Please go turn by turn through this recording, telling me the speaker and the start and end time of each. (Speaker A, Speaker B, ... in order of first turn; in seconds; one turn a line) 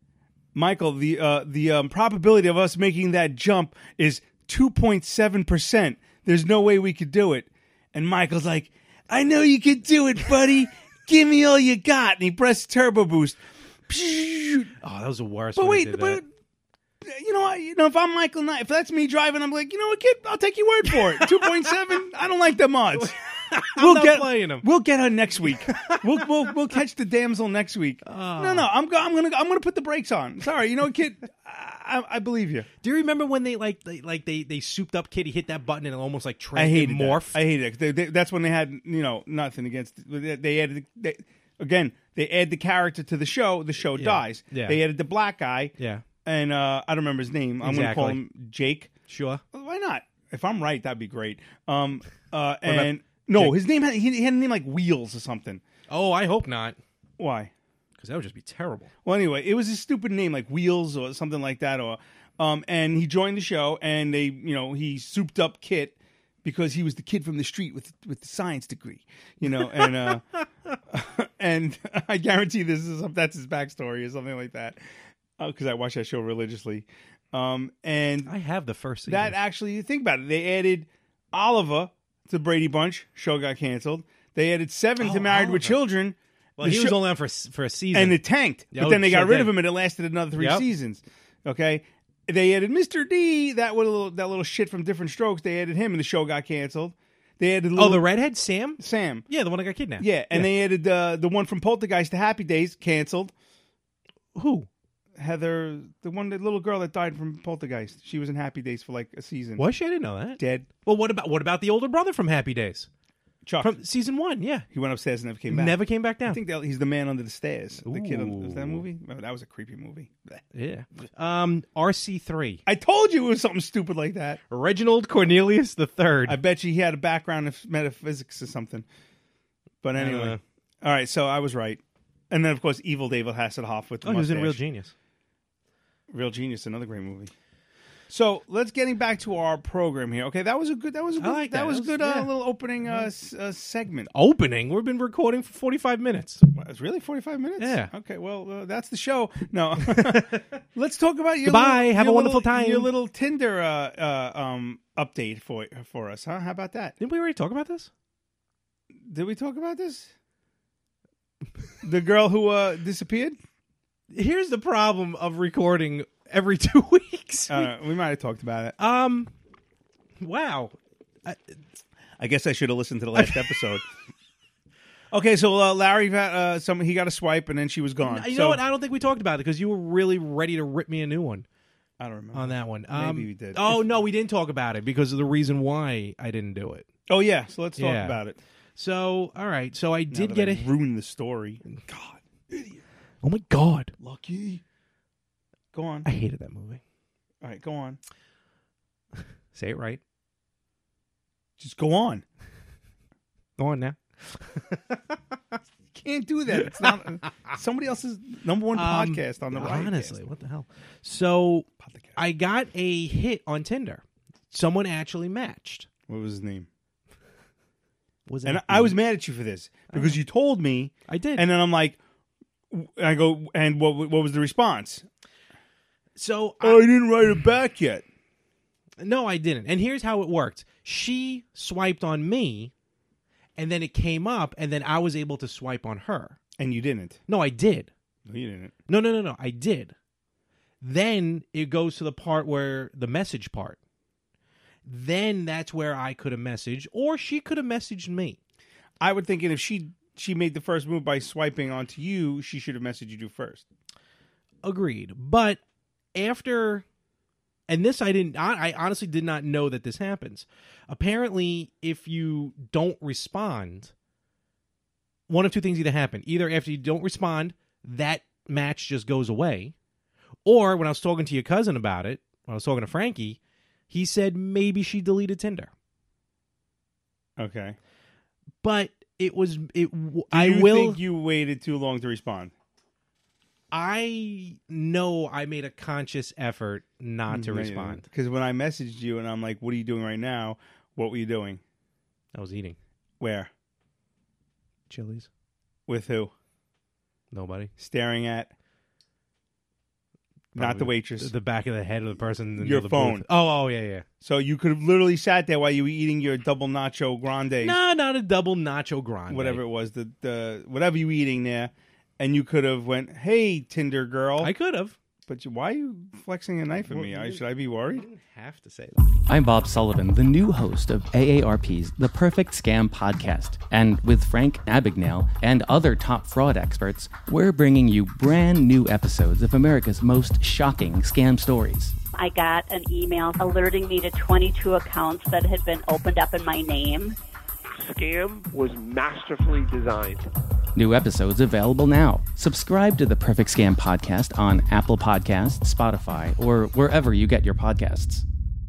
Speaker A: 0.5-14.7
Speaker B: 14.8-16.2
Speaker A: 15.6-16.3
Speaker A: 17.0-23.1
Speaker B: 20.9-21.5
Speaker B: 22.9-24.6
Speaker A: 23.7-32.7
Speaker B: 25.6-26.0
Speaker B: 28.0-28.7
Speaker B: 32.8-37.4
Speaker A: 36.5-48.9
Speaker B: 43.9-44.8
Speaker B: 45.8-46.0
Speaker B: 47.6-48.2
Speaker B: 49.1-49.4
Speaker A: 49.5-55.6
Speaker B: 52.6-53.6
Speaker B: 55.9-56.8
Speaker A: 57.2-57.5
Speaker B: 58.0-58.9
Speaker A: 59.0-70.2
Speaker A: 70.9-74.8
Speaker A: 75.4-78.3
Speaker B: 78.2-79.3
Speaker A: 79.0-87.0
Speaker B: 85.0-85.8
Speaker B: 86.6-88.2
Speaker A: 87.9-98.0
Speaker B: 88.7-89.6
Speaker B: 90.4-90.7
Speaker B: 97.8-100.5
Speaker A: 98.8-99.3
Speaker A: 100.0-103.3
Speaker B: 104.3-104.7
Speaker A: 105.2-109.7
Speaker B: 109.6-112.9
Speaker A: 110.4-110.7
Speaker A: 113.4-113.8
Speaker B: 113.6-114.7
Speaker A: 114.7-120.4
Speaker B: 115.5-116.4
Speaker B: 117.8-118.8
Speaker B: 120.5-122.6
Speaker A: 122.7-124.4
Speaker B: 124.5-126.4
Speaker A: 126.2-128.8
Speaker A: 129.8-134.6
Speaker B: 129.9-130.4
Speaker B: 134.0-134.9
Speaker A: 136.1-137.3
Speaker A: 138.1-144.1
Speaker B: 141.2-143.1
Speaker B: 144.1-146.4
Speaker A: 146.5-157.0
Speaker B: 147.6-147.9
Speaker B: 149.8-150.5
Speaker B: 151.4-152.9
Speaker B: 157.0-157.9
Speaker A: 159.0-160.1
Speaker A: 161.8-163.4
Speaker B: 164.1-167.7
Speaker A: 167.5-168.8
Speaker B: 168.8-169.3
Speaker B: 170.2-171.5
Speaker A: 172.2-173.8
Speaker B: 173.2-173.6
Speaker A: 175.1-178.6
Speaker B: 178.0-181.4
Speaker A: 182.0-184.0
Speaker B: 182.3-186.9
Speaker A: 187.1-188.4
Speaker B: 187.8-188.2
Speaker B: 188.8-190.7
Speaker A: 190.1-192.8
Speaker B: 193.2-193.9
Speaker A: 194.0-194.6
Speaker A: 195.7-196.1
Speaker B: 196.0-196.8
Speaker A: 197.4-198.0
Speaker B: 199.5-200.0
Speaker A: 201.6-202.2
Speaker B: 203.6-205.3
Speaker A: 205.9-210.2
Speaker B: 208.7-215.9
Speaker A: 211.8-212.2
Speaker A: 216.1-216.7
Speaker B: 218.3-219.0
Speaker A: 218.4-222.0
Speaker B: 219.9-220.2
Speaker B: 221.1-221.5
Speaker A: 222.7-225.1
Speaker B: 226.2-226.8
Speaker A: 226.6-228.0
Speaker B: 229.0-232.7
Speaker B: 233.6-236.4
Speaker A: 236.6-237.2
Speaker B: 237.3-237.9
Speaker A: 238.2-238.7
Speaker B: 238.9-239.9
Speaker B: 240.8-243.8
Speaker B: 244.8-248.4
Speaker A: 249.0-253.6
Speaker B: 254.6-255.6
Speaker B: 256.1-256.8
Speaker B: 257.7-263.9
Speaker B: 265.3-269.7
Speaker B: 270.4-273.4
Speaker B: 273.9-275.7
Speaker A: 277.4-277.8
Speaker B: 278.6-281.0
Speaker A: 280.3-282.5
Speaker B: 283.7-288.0
Speaker A: 287.3-291.6
Speaker B: 292.3-292.8
Speaker A: 293.2-293.5
Speaker B: 294.9-295.3
Speaker A: 295.9-296.3
Speaker B: 297.3-297.7
Speaker A: 297.8-298.5
Speaker A: 300.5-301.3
Speaker B: 300.5-304.0
Speaker A: 302.6-303.2
Speaker A: 304.2-307.8
Speaker B: 307.6-309.6
Speaker A: 309.3-314.5
Speaker B: 314.4-314.9
Speaker A: 315.3-318.1
Speaker B: 316.8-319.0
Speaker C: 319.3-331.9
Speaker D: 332.1-337.1
Speaker E: 337.7-340.3
Speaker C: 340.7-348.2